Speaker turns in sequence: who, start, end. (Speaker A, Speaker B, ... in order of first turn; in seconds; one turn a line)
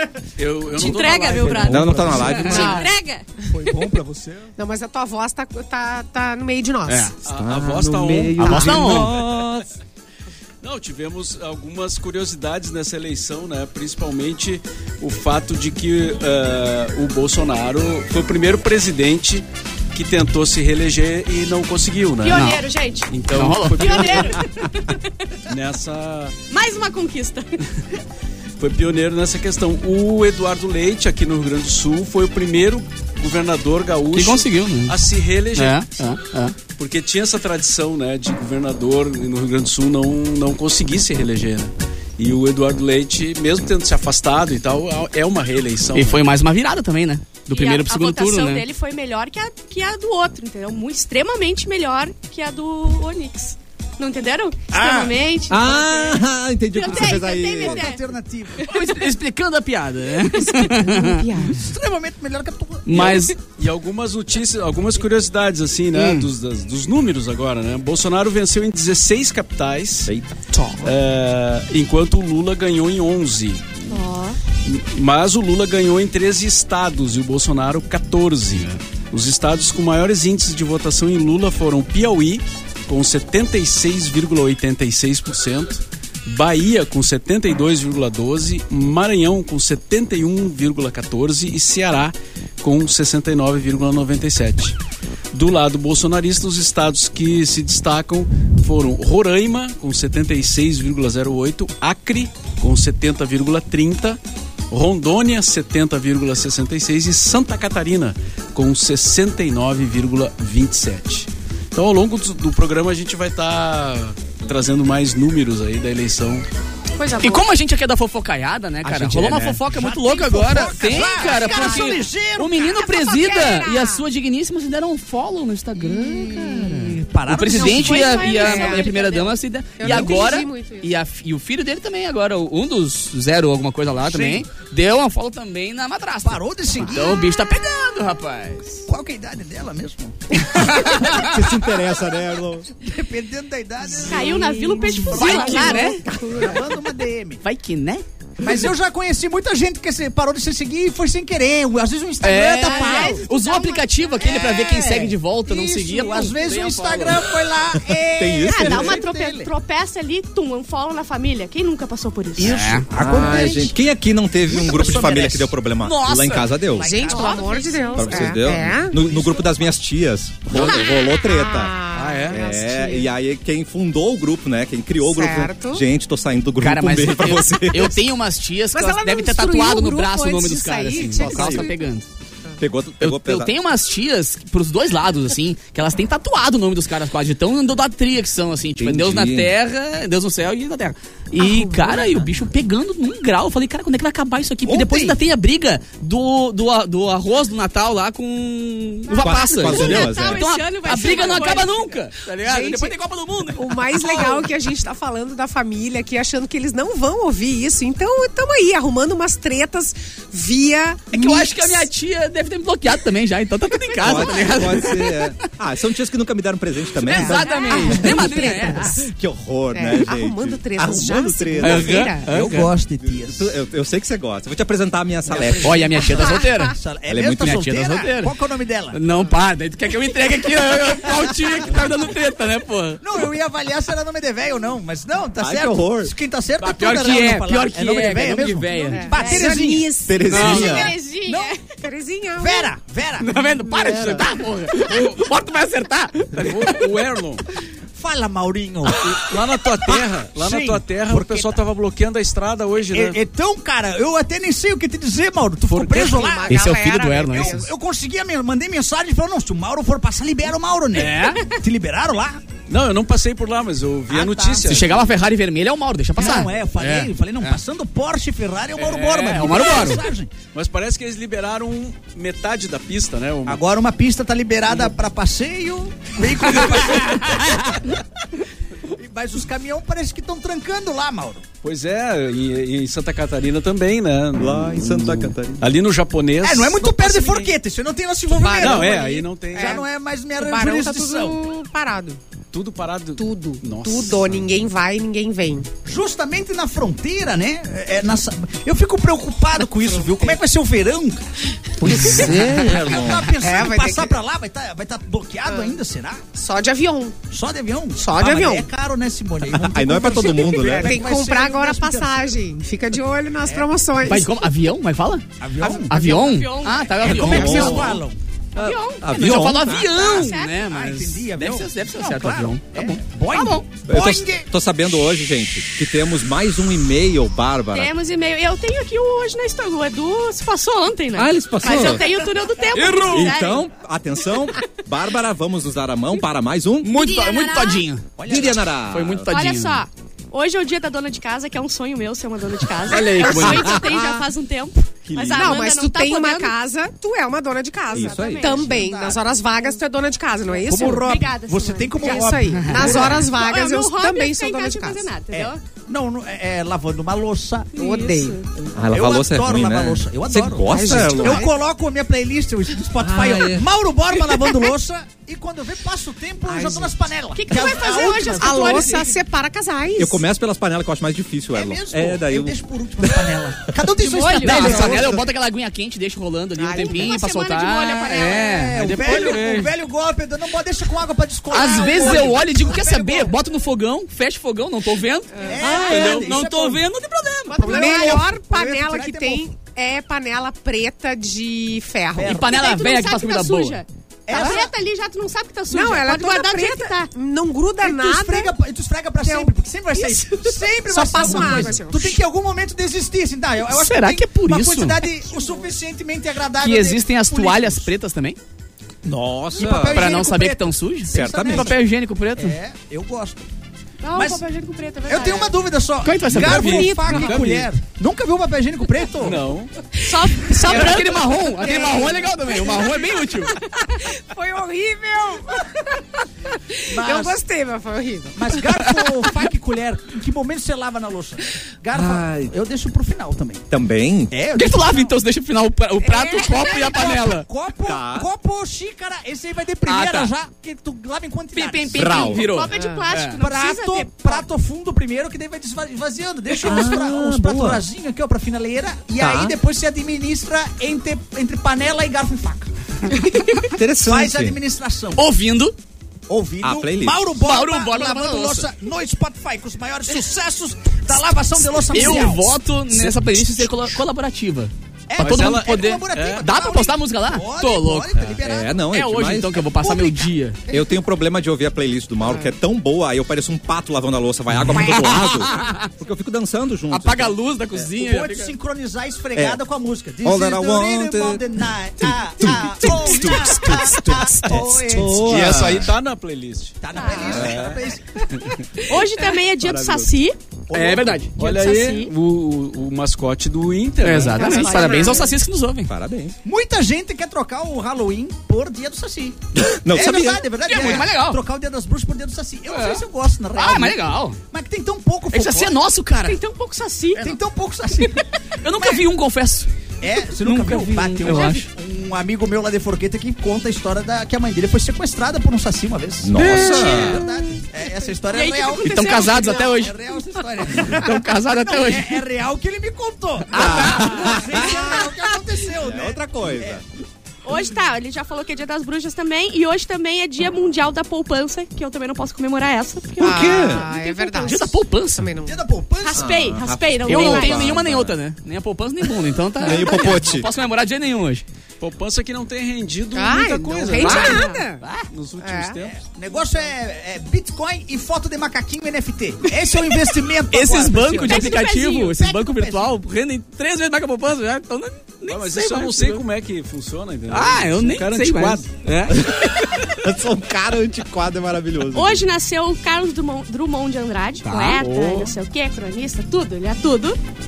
Speaker A: 0.4-2.7
Speaker B: 0.8-3.9
Speaker C: 1.5-2.6
Speaker D: 1.6-2.9
Speaker E: 2.5-2.9
Speaker C: 3.5-4.5
Speaker E: 4.6-7.2
Speaker F: 6.8-7.1
Speaker A: 7.2-9.5
Speaker D: 7.3-9.7
Speaker F: 8.4-9.2
Speaker E: 8.4-8.8
Speaker C: 8.8-9.0
Speaker A: 10.6-22.6
Speaker B: 22.2-23.1
Speaker F: 22.3-22.6
Speaker A: 23.1-24.4
Speaker F: 23.3-24.4
Speaker B: 23.8-25.0
Speaker A: 25.5-26.4
Speaker B: 26.5-27.6
Speaker A: 28.6-35.9
Speaker F: 34.1-35.0
Speaker F: 35.5-36.5
Speaker A: 36.7-46.2
Speaker F: 45.9-48.6
Speaker B: 47.5-58.0
Speaker C: 54.7-55.1
Speaker D: 55.5-57.8
Speaker C: 57.0-58.6
Speaker B: 58.6-58.9
Speaker F: 58.6-61.2
Speaker E: 60.4-61.6
Speaker C: 61.4-63.1
Speaker F: 62.9-63.4
Speaker A: 62.9-70.1
Speaker F: 65.9-66.3
Speaker D: 70.0-70.3
Speaker A: 70.8-74.0
Speaker B: 73.9-74.4
Speaker A: 74.6-94.8
Speaker A: 95.3-104.2
Speaker A: 104.7-116.5
Speaker B: 117.0-117.5
Speaker F: 117.2-138.9
Speaker A: 118.8-119.6
Speaker C: 119.6-122.9
Speaker E: 120.8-121.9
Speaker E: 122.9-124.0
Speaker C: 125.8-128.8
Speaker B: 127.6-129.3
Speaker E: 127.7-128.9
Speaker E: 129.8-130.9
Speaker C: 129.8-130.1
Speaker C: 134.0-134.4
Speaker C: 136.2-137.4
Speaker C: 138.9-140.2
Speaker F: 140.4-141.4
Speaker D: 140.7-142.7
Speaker C: 142.8-147.4
Speaker B: 144.0-146.2
Speaker F: 145.0-146.0
Speaker F: 147.4-148.0
Speaker C: 148.4-159.5
Speaker F: 152.2-157.3
Speaker B: 152.6-153.6
Speaker D: 158.1-159.0
Speaker B: 158.4-163.7
Speaker C: 162.3-163.7
Speaker F: 162.4-162.9
Speaker D: 162.9-166.9
Speaker C: 164.5-165.5
Speaker F: 165.8-167.9
Speaker B: 166.8-168.2
Speaker E: 166.8-169.0
Speaker C: 167.1-167.4
Speaker D: 167.9-171.7
Speaker C: 169.1-169.3
Speaker F: 170.5-170.8
Speaker E: 170.6-173.1
Speaker A: 171.9-172.4
Speaker D: 172.3-178.0
Speaker E: 175.0-175.8
Speaker F: 176.6-182.1
Speaker E: 178.7-181.8
Speaker D: 181.1-181.7
Speaker D: 182.6-183.5
Speaker F: 183.0-204.4
Speaker D: 188.8-189.5
Speaker E: 191.4-192.0
Speaker C: 191.6-191.8
Speaker C: 194.7-195.2
Speaker B: 199.1-201.9
Speaker D: 199.2-200.4
Speaker E: 202.4-202.9
Speaker E: 203.5-211.8
Speaker F: 211.1-215.3
Speaker D: 214.0-218.3
Speaker F: 217.0-219.0
Speaker E: 217.1-219.1
Speaker B: 217.4-217.8
Speaker D: 218.9-222.1
Speaker E: 219.7-222.3
Speaker F: 221.6-222.7
Speaker C: 221.7-223.5
Speaker D: 223.0-225.9
Speaker C: 225.2-229.0
Speaker F: 225.6-226.8
Speaker D: 227.1-227.5
Speaker F: 227.3-228.3
Speaker F: 228.9-233.0
Speaker C: 233.0-241.5
Speaker D: 235.4-236.1
Speaker F: 236.6-239.1
Speaker E: 238.8-240.9
Speaker D: 240.1-240.9
Speaker F: 240.3-240.9
Speaker B: 240.4-241.8
Speaker E: 241.7-242.7
Speaker C: 242.3-243.4
Speaker F: 243.2-246.9
Speaker D: 243.6-244.3
Speaker A: 244.8-245.2
Speaker A: 246.3-247.4
Speaker C: 247.9-249.1
Speaker A: 249.0-253.2
Speaker C: 249.8-251.6
Speaker C: 252.9-256.6
Speaker A: 255.6-256.1
Speaker E: 255.8-257.7
Speaker F: 256.5-257.6
Speaker C: 257.3-262.4
Speaker F: 260.9-261.4
Speaker A: 262.7-265.0
Speaker C: 264.1-265.1
Speaker F: 264.6-267.6
Speaker C: 266.2-270.3
Speaker F: 268.8-270.0
Speaker A: 270.5-273.6
Speaker C: 273.4-278.0
Speaker F: 277.0-277.8
Speaker C: 278.9-281.4
Speaker A: 281.6-287.5
Speaker D: 284.4-285.7
Speaker C: 286.4-291.4
Speaker E: 288.3-292.2
Speaker A: 288.6-289.8
Speaker A: 292.5-294.5
Speaker E: 293.2-295.7
Speaker C: 295.9-301.2
Speaker E: 299.9-300.4
Speaker D: 301.8-303.3
Speaker C: 301.8-306.2
Speaker E: 301.9-304.2
Speaker F: 302.0-302.3
Speaker E: 305.4-305.8
Speaker E: 306.3-307.2
Speaker C: 307.3-312.2
Speaker E: 307.9-308.7
Speaker D: 309.4-311.0
Speaker E: 310.1-314.3
Speaker C: 313.4-313.7
Speaker F: 314.0-315.3
Speaker C: 315.4-316.2
Speaker F: 315.9-317.8
Speaker B: 315.9-317.8
Speaker E: 315.9-316.2
Speaker C: 317.0-318.2
Speaker D: 317.1-318.0
Speaker B: 318.6-320.6
Speaker D: 318.6-319.9
Speaker F: 319.1-323.6
Speaker C: 320.0-324.5
Speaker D: 323.9-327.9
Speaker B: 327.7-333.6
Speaker D: 331.1-332.1
Speaker C: 331.8-332.2
Speaker F: 332.7-333.3
Speaker D: 333.1-336.9
Speaker F: 336.8-338.0
Speaker B: 336.9-337.9
Speaker C: 338.2-338.6
Speaker D: 338.3-339.2
Speaker F: 338.9-339.8
Speaker B: 339.3-346.5
Speaker F: 342.9-343.9
Speaker E: 343.1-344.2
Speaker D: 343.5-343.8
Speaker D: 345.1-345.6
Speaker E: 345.2-351.2
Speaker B: 347.9-349.8
Speaker D: 347.9-348.8
Speaker B: 350.6-355.6
Speaker C: 350.6-353.4
Speaker E: 352.0-355.1
Speaker F: 352.5-353.0
Speaker C: 355.3-357.8
Speaker E: 357.8-358.4
Speaker B: 357.8-358.4
Speaker C: 358.6-369.1
Speaker D: 358.7-361.5
Speaker E: 360.6-361.5
Speaker D: 363.0-363.6
Speaker E: 366.5-366.9
Speaker B: 367.3-369.1
Speaker E: 368.4-370.2
Speaker D: 370.0-372.6
Speaker C: 371.5-375.2
Speaker B: 374.0-374.9
Speaker F: 374.3-379.7
Speaker D: 374.7-375.2
Speaker E: 376.6-377.1
Speaker B: 376.7-378.6
Speaker C: 378.5-383.4
Speaker F: 381.5-388.2
Speaker C: 385.4-386.7
Speaker D: 385.6-386.6
Speaker E: 387.5-392.4
Speaker C: 387.5-389.5
Speaker C: 392.1-392.6
Speaker F: 392.3-393.8
Speaker B: 392.4-397.1
Speaker C: 394.3-394.7
Speaker E: 394.3-394.6
Speaker E: 395.7-398.5
Speaker C: 397.8-407.9
Speaker E: 399.2-399.5
Speaker B: 400.0-400.7
Speaker E: 400.9-402.2
Speaker F: 403.7-405.0
Speaker F: 406.6-408.4
Speaker D: 409.0-410.1
Speaker C: 409.5-411.8
Speaker F: 409.9-412.6
Speaker D: 411.1-411.7
Speaker C: 412.4-413.5
Speaker B: 414.0-415.5
Speaker C: 414.1-414.5
Speaker C: 415.0-419.4
Speaker F: 416.0-417.5
Speaker A: 416.4-417.7
Speaker A: 419.2-419.7
Speaker B: 420.0-421.2
Speaker F: 420.3-423.6
Speaker C: 420.6-421.0
Speaker E: 421.6-423.0
Speaker C: 421.6-422.3
Speaker E: 423.9-426.1
Speaker E: 426.7-428.6
Speaker C: 426.9-427.4
Speaker C: 428.3-433.7
Speaker D: 431.9-432.5
Speaker D: 433.7-434.3
Speaker C: 434.3-435.2
Speaker F: 434.5-437.5
Speaker E: 436.0-437.0
Speaker C: 436.3-442.4
Speaker D: 437.8-438.3
Speaker F: 439.9-440.3
Speaker F: 441.5-443.4
Speaker D: 441.9-442.5
Speaker B: 442.2-444.4
Speaker E: 442.7-443.0
Speaker C: 443.4-452.7
Speaker D: 446.6-447.8
Speaker D: 449.2-449.6
Speaker D: 453.7-454.6
Speaker C: 454.0-455.3
Speaker F: 455.1-455.7
Speaker C: 456.3-463.2
Speaker D: 456.6-457.2
Speaker F: 457.4-458.7
Speaker F: 461.9-468.1
Speaker C: 465.1-468.8
Speaker A: 465.2-466.4
Speaker D: 468.4-469.6
Speaker F: 468.9-470.6
Speaker C: 469.7-470.9
Speaker D: 470.7-477.8
Speaker F: 474.7-475.9
Speaker F: 476.9-478.5
Speaker C: 477.9-485.2
Speaker D: 479.4-479.6
Speaker D: 480.2-481.4
Speaker F: 482.4-484.5
Speaker A: 484.9-487.8
Speaker D: 484.9-485.9
Speaker C: 486.8-488.3
Speaker B: 486.9-487.4
Speaker D: 487.2-487.6
Speaker B: 488.8-490.4
Speaker D: 489.6-490.1
Speaker C: 490.7-491.2
Speaker F: 490.7-491.4
Speaker A: 491.4-495.0
Speaker B: 491.4-492.1
Speaker F: 494.0-495.9
Speaker E: 494.3-495.3
Speaker C: 494.6-495.1
Speaker D: 495.9-496.4
Speaker C: 496.4-505.8
Speaker D: 499.6-500.4
Speaker F: 500.6-501.4
Speaker F: 502.7-504.4
Speaker F: 505.3-506.4
Speaker B: 506.2-507.2
Speaker C: 507.1-509.1
Speaker F: 508.6-509.7
Speaker C: 510.0-526.8
Speaker F: 510.4-511.6
Speaker D: 516.2-517.2
Speaker F: 516.4-517.1
Speaker B: 518.3-519.8
Speaker F: 518.8-519.9
Speaker F: 520.8-522.2
Speaker F: 523.5-524.3
Speaker D: 523.5-525.0
Speaker B: 524.7-525.1
Speaker D: 525.8-526.8
Speaker B: 527.4-534.6
Speaker D: 533.2-533.9
Speaker E: 533.2-535.6
Speaker F: 534.4-535.3
Speaker C: 535.4-536.7
Speaker B: 536.0-537.7
Speaker D: 536.1-538.1
Speaker F: 537.0-541.4
Speaker D: 539.6-540.5
Speaker A: 541.8-544.5
Speaker E: 543.1-544.8
Speaker B: 544.0-544.6
Speaker F: 544.0-545.1
Speaker A: 545.1-546.0
Speaker E: 545.4-545.8
Speaker C: 545.8-553.0
Speaker F: 550.5-556.2
Speaker B: 551.2-552.1
Speaker A: 555.3-558.7
Speaker F: 557.3-559.9
Speaker D: 559.1-562.2
Speaker B: 561.9-567.2
Speaker F: 564.4-565.3